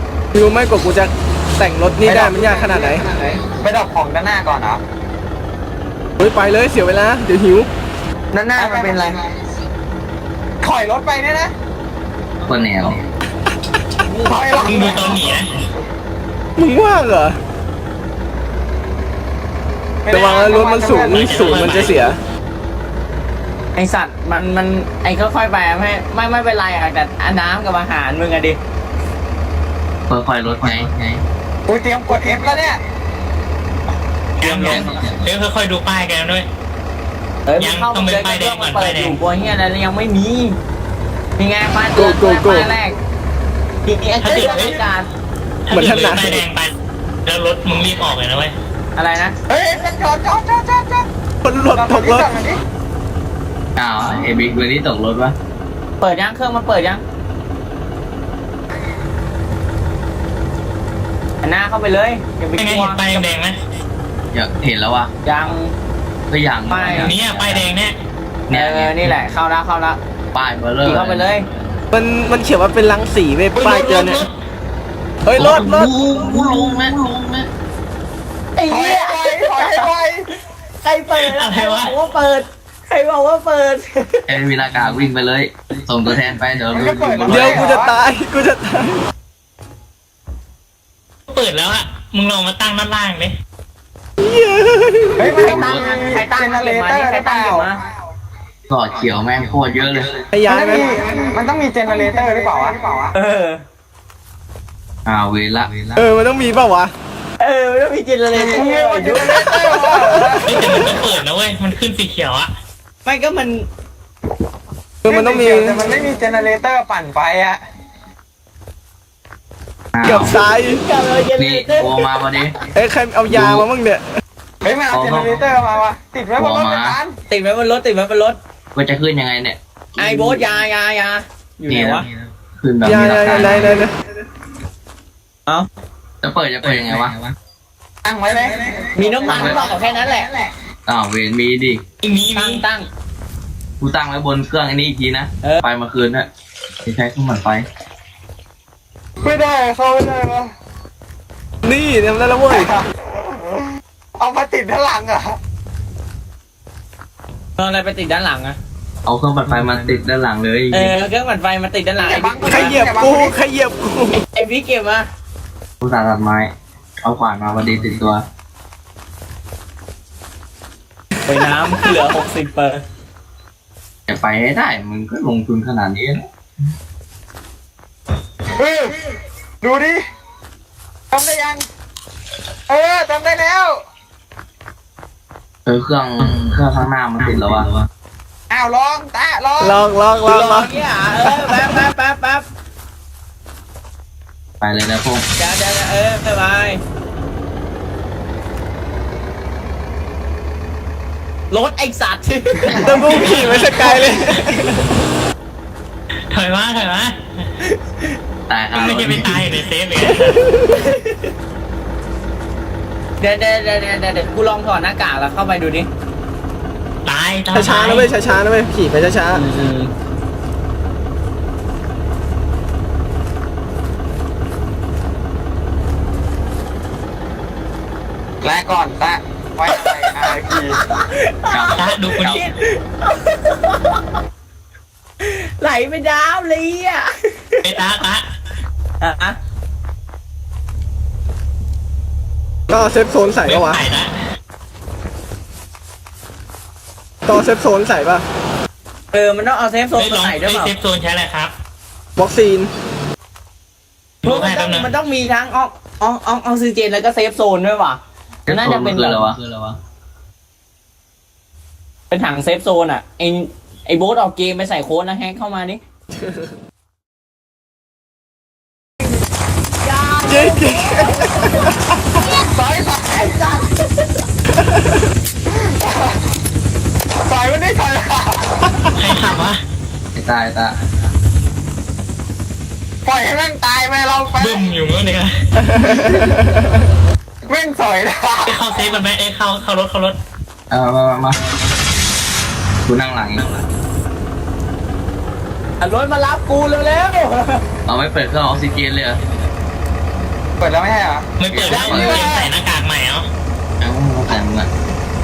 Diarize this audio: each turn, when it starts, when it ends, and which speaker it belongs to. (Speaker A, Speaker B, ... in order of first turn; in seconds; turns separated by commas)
Speaker A: 0.3-3.0, Speaker B: 2.0-4.8, Speaker A: 6.2-7.7, Speaker C: 8.3-9.2, Speaker B: 8.6-9.2, Speaker B: 10.6-11.5, Speaker D: 12.4-13.0, Speaker B: 14.2-15.3, Speaker C: 14.2-14.7, Speaker E: 14.6-15.5, Speaker A: 16.6-17.4, Speaker B: 20.0-21.9, Speaker A: 20.1-22.2, Speaker E: 21.1-22.0, Speaker C: 23.8-28.6, Speaker D: 30.1-31.2, Speaker B: 31.7-32.8, Speaker E: 34.4-36.5, Speaker C: 34.4-35.1, Speaker C: 37.5-40.6, Speaker E: 37.6-39.2, Speaker C: 41.4-43.0, Speaker A: 42.0-42.7, Speaker C: 43.9-45.1, Speaker B: 44.2-44.8, Speaker E: 44.2-44.8, Speaker E: 45.7-46.7, Speaker A: 45.7-46.4, Speaker E: 47.2-48.5, Speaker C: 49.0-49.4, Speaker B: 49.5-51.1, Speaker A: 51.4-52.3, Speaker B: 51.7-52.6, Speaker D: 53.8-55.4, Speaker C: 56.0-57.0, Speaker C: 61.4-63.2, Speaker E: 62.6-63.6, Speaker D: 64.3-65.1, Speaker C: 65.2-65.7, Speaker D: 66.3-67.6, Speaker C: 66.7-67.1, Speaker E: 66.9-68.0, Speaker D: 68.5-69.2, Speaker C: 68.5-70.0, Speaker D: 70.3-71.4, Speaker C: 70.8-71.5, Speaker A: 71.9-74.2, Speaker E: 73.5-74.3, Speaker A: 75.2-75.9, Speaker D: 75.4-77.5, Speaker C: 78.6-79.9, Speaker B: 78.7-80.3, Speaker C: 80.8-84.4, Speaker E: 81.2-81.9, Speaker D: 84.3-87.7, Speaker B: 86.7-88.0, Speaker A: 87.3-89.0, Speaker E: 91.3-93.3, Speaker A: 94.2-95.5, Speaker B: 95.2-97.7, Speaker C: 95.4-97.8, Speaker D: 95.5-95.9, Speaker D: 98.7-100.3, Speaker A: 100.3-100.9, Speaker B: 100.5-103.1, Speaker C: 103.1-103.6, Speaker D: 105.0-105.9, Speaker A: 106.0-106.9, Speaker C: 107.4-110.4, Speaker B: 108.3-110.6, Speaker A: 110.1-110.5, Speaker E: 110.5-112.5, Speaker C: 113.0-113.7, Speaker A: 115.0-115.8, Speaker B: 115.1-117.6, Speaker D: 119.9-120.4, Speaker A: 120.0-120.8, Speaker C: 120.8-122.5, Speaker D: 121.4-122.6, Speaker A: 122.8-124.1, Speaker D: 123.3-123.7, Speaker B: 124.6-127.1, Speaker D: 124.9-125.4, Speaker D: 126.4-127.0, Speaker C: 127.3-128.4, Speaker D: 128.7-130.4, Speaker C: 130.0-132.1, Speaker D: 131.7-133.8, Speaker A: 132.8-133.9, Speaker D: 136.2-137.2, Speaker B: 138.0-139.5, Speaker C: 139.0-140.3, Speaker D: 139.3-139.6, Speaker D: 140.9-141.8, Speaker E: 142.0-142.6, Speaker C: 142.3-142.9, Speaker D: 143.8-146.3, Speaker D: 146.8-147.7, Speaker B: 149.2-150.5, Speaker A: 151.6-152.7, Speaker B: 152.5-152.8, Speaker B: 154.2-155.4, Speaker C: 157.6-158.6, Speaker D: 159.1-160.9, Speaker C: 160.7-162.8, Speaker B: 162.0-163.3, Speaker A: 162.4-164.2, Speaker C: 164.2-165.1, Speaker D: 165.8-168.2, Speaker C: 171.3-172.8, Speaker D: 174.1-176.3, Speaker B: 178.6-179.0, Speaker B: 179.6-180.0, Speaker B: 181.1-181.6, Speaker B: 182.7-183.8, Speaker D: 185.7-187.8, Speaker B: 188.5-189.8, Speaker A: 189.6-190.7, Speaker C: 190.2-192.5, Speaker A: 191.3-191.6, Speaker D: 194.6-195.3, Speaker C: 195.4-196.8, Speaker C: 201.5-204.8, Speaker A: 202.8-204.6, Speaker E: 203.1-204.0, Speaker E: 206.3-207.2, Speaker D: 208.5-209.5, Speaker E: 208.7-210.4, Speaker A: 210.1-210.9, Speaker C: 210.7-211.3, Speaker C: 213.2-215.9, Speaker E: 217.1-218.1, Speaker A: 217.5-219.4, Speaker C: 219.3-219.9, Speaker B: 228.4-230.8, Speaker C: 229.7-234.1, Speaker D: 231.5-232.4, Speaker E: 231.8-232.5, Speaker C: 235.2-237.6, Speaker E: 237.6-238.3, Speaker C: 239.0-239.4, Speaker A: 242.7-243.8, Speaker E: 243.4-244.1, Speaker A: 247.3-248.2, Speaker C: 249.1-250.7, Speaker E: 250.0-251.5, Speaker A: 252.2-252.7, Speaker E: 254.2-254.9, Speaker C: 254.2-259.4, Speaker D: 258.5-259.8, Speaker C: 262.1-265.8, Speaker C: 269.8-271.7, Speaker A: 270.2-272.2, Speaker B: 272.4-273.4, Speaker C: 273.1-273.9, Speaker A: 274.5-275.1, Speaker B: 275.5-276.2, Speaker B: 277.2-278.9, Speaker E: 279.0-279.6, Speaker D: 280.1-280.8, Speaker B: 283.1-284.7, Speaker E: 284.4-285.3, Speaker A: 285.6-286.8, Speaker B: 287.5-288.6, Speaker E: 288.5-290.2, Speaker D: 290.7-291.6, Speaker D: 292.9-293.5, Speaker C: 295.8-297.6, Speaker D: 297.9-299.2, Speaker B: 300.6-302.5, Speaker E: 301.4-303.3, Speaker D: 301.5-302.3, Speaker C: 301.7-302.4, Speaker D: 303.8-304.7